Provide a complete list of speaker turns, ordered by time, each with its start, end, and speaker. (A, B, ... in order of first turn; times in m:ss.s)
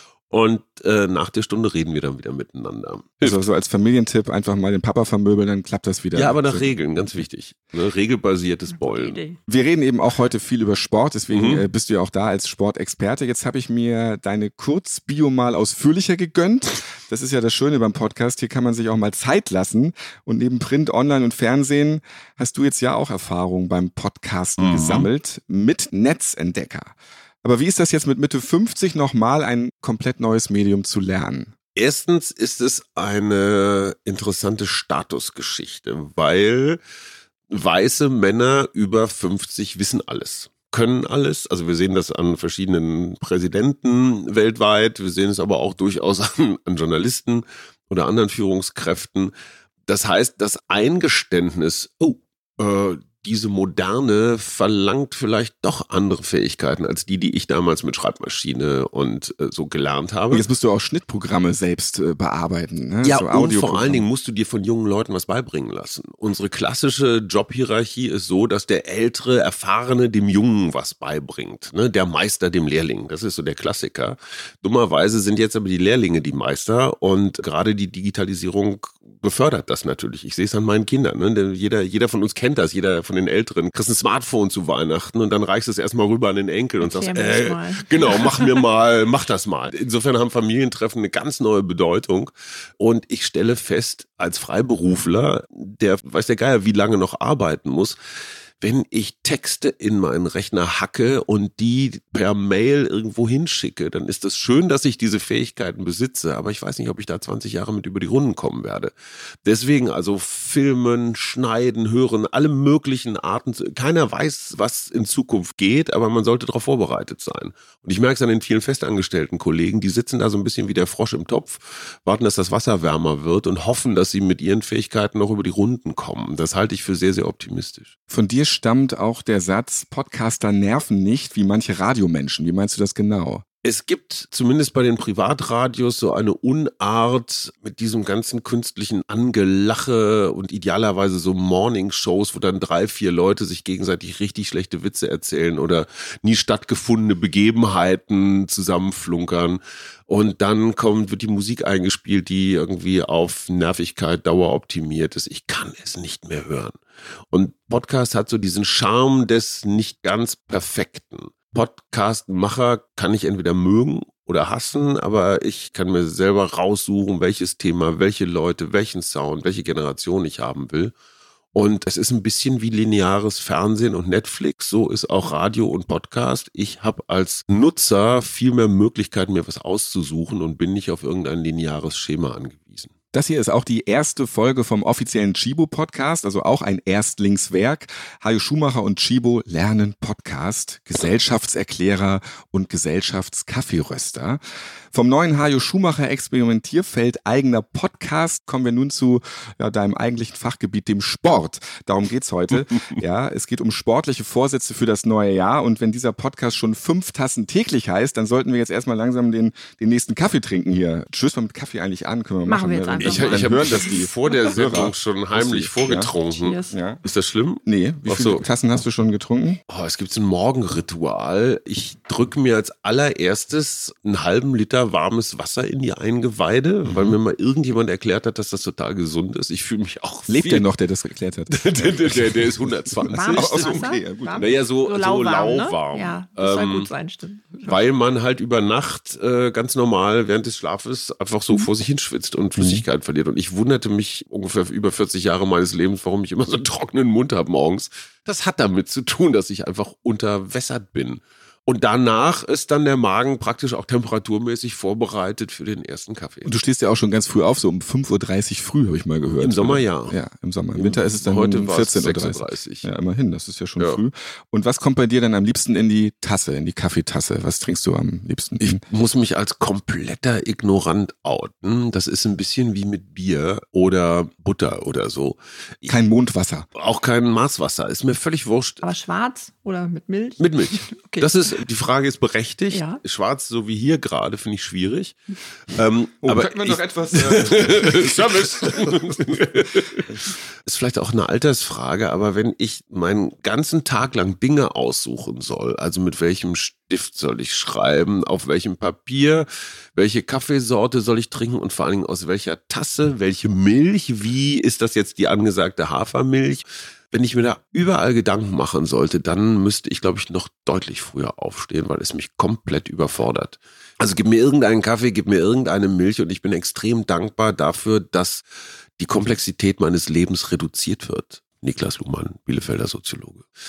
0:00.3-0:03.4 A
0:03.2-0:06.8 B
0:06.1-0:09.2 A
0:08.8-0:09.4 C
0:09.5-0:31.5 B
0:11.3-0:11.6 A
0:24.6-0:25.1 A
0:31.8-0:36.8 A
0:37.5-0:49.3 A
0:49.8-1:00.4 A
1:00.3-1:04.1 B
1:03.0-1:38.0 A
1:26.8-1:28.6 C
1:38.6-1:48.9 A
1:49.4-2:07.9 A
2:08.1-2:13.4 B
2:13.6-2:36.8 A
2:37.3-2:50.9 A
2:51.5-3:02.9 A
3:03.1-3:14.4 B
3:14.9-3:36.1 B
3:22.7-3:23.0 A
3:32.4-3:34.4 C
3:33.0-3:38.4 A
3:36.3-3:36.8 C
3:36.7-3:37.0 B
3:37.6-3:39.6 B
3:39.7-3:50.7 A
3:46.8-3:47.2 B
3:50.3-3:52.5 B
3:51.5-3:56.9 A
3:53.1-3:57.8 C
3:53.3-3:54.5 B
3:57.6-4:16.5 A
4:02.6-4:02.8 B
4:16.4-4:28.8 B
4:19.2-4:20.2 A
4:20.7-4:22.9 A
4:28.6-4:35.9 A
4:35.9-4:36.7 B
4:36.7-4:38.8 A
4:38.8-4:41.4 C
4:40.4-5:18.4 A
4:42.7-4:43.0 C
4:46.2-4:49.2 B
5:19.0-5:23.4 A